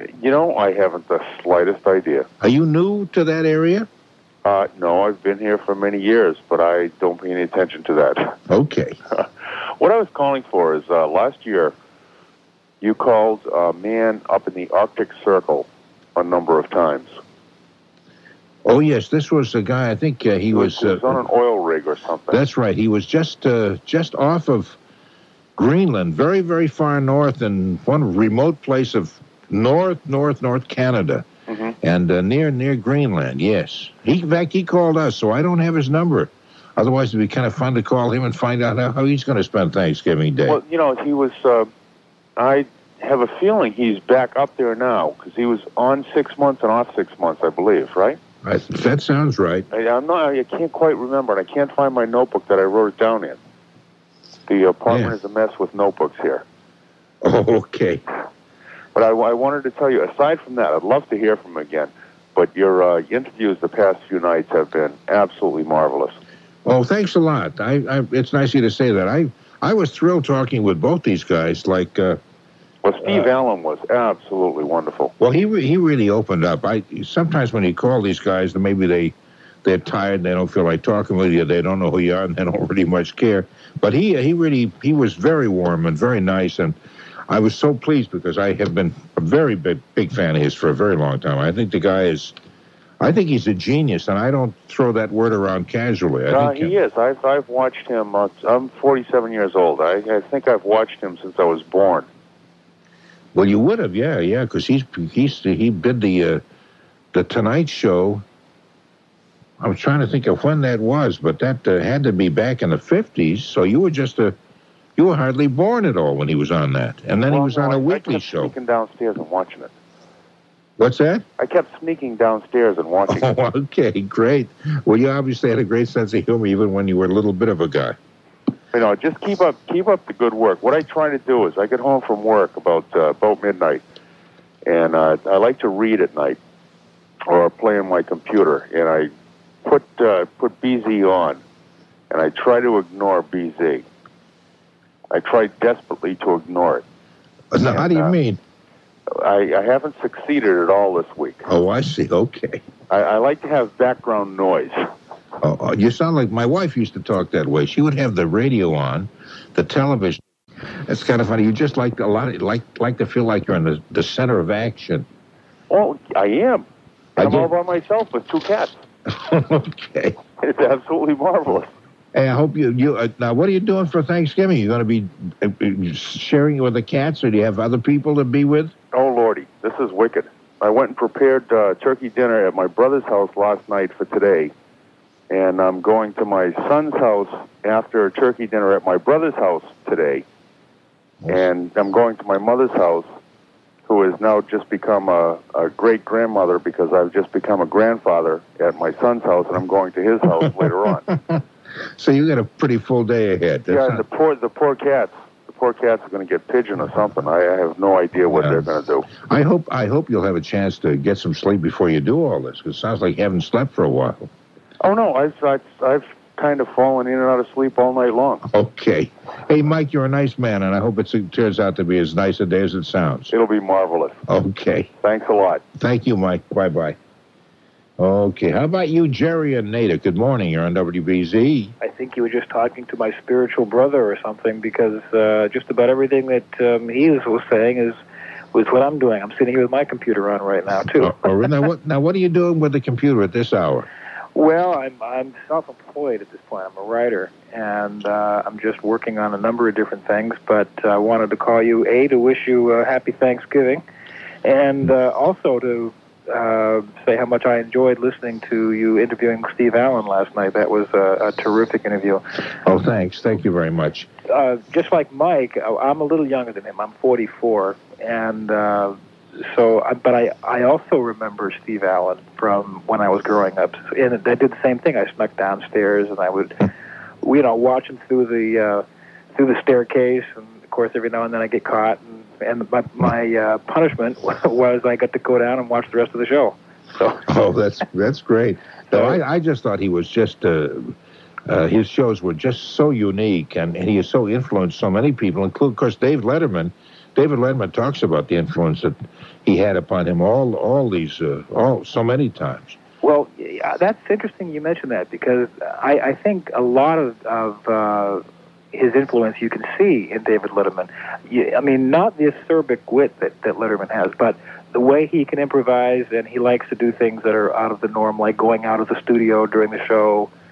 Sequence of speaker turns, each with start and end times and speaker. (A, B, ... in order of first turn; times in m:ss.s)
0:00.2-0:02.3 A
0:02.4-0:03.9 B
0:04.4-0:08.4 A
0:08.5-0:09.0 B
0:09.8-0:11.7 A
0:12.8-0:17.1 A
0:18.6-0:21.2 B
0:20.5-0:22.4 A
0:22.3-0:24.8 B
0:25.6-0:31.3 B
0:31.5-0:31.7 A
0:31.8-0:40.6 B
0:40.5-0:41.7 A
0:42.4-0:48.2 A
0:48.4-0:49.7 B
0:49.7-0:53.4 A
0:54.5-0:56.4 A
0:57.2-0:58.0 B
0:59.0-1:06.2 A
1:06.6-1:12.2 B
1:12.8-1:15.1 A
1:15.2-1:26.8 B
1:27.3-1:32.4 B
1:33.0-1:36.7 B
1:36.3-1:42.1 A
1:43.3-1:46.4 B
1:47.1-1:48.2 B
1:49.6-1:54.4 B
1:55.0-1:58.5 B
1:57.3-1:59.7 A
2:00.8-2:01.2 B
2:01.4-2:03.3 A
2:03.1-2:08.0 B
2:08.7-2:13.8 A
2:14.7-2:16.4 A
2:17.3-2:19.1 A
2:19.6-2:21.4 A
2:22.1-2:23.8 A
2:25.1-2:26.8 A
2:27.5-2:28.4 B
2:27.7-2:28.2 A
2:29.2-2:31.4 A
2:31.5-2:32.6 B
2:32.9-2:34.8 A
2:35.4-2:40.2 B
2:40.9-2:45.1 B
2:45.7-2:46.6 A
2:47.2-2:47.5 B
2:47.2-2:48.8 A
2:49.1-2:50.2 B
2:50.4-2:51.7 A
2:52.1-2:58.7 B
2:58.9-3:04.5 A
3:05.3-3:10.2 A
3:11.3-3:13.1 A
3:13.9-3:21.0 A
3:21.1-3:21.4 B
3:22.0-3:24.0 B
3:23.7-3:29.1 A
3:28.2-3:34.3 B
3:34.8-3:38.4 A
3:38.5-3:43.3 B
3:43.3-3:44.2 A
3:44.3-3:44.9 B
3:45.0-3:45.6 A
3:45.8-3:47.0 B
3:48.0-3:51.7 B
3:51.8-3:58.0 C
3:58.5-4:01.3 C
4:00.9-4:03.9 B
4:04.4-4:13.8 C
4:14.4-4:22.2 C
4:22.6-4:24.1 B
4:24.3-4:36.6 C
4:37.2-4:38.8 C
4:39.4-4:47.2 C
4:47.3-4:50.9 B
4:48.9-4:49.2 C
4:51.5-5:02.8 B
5:03.0-5:20.3 C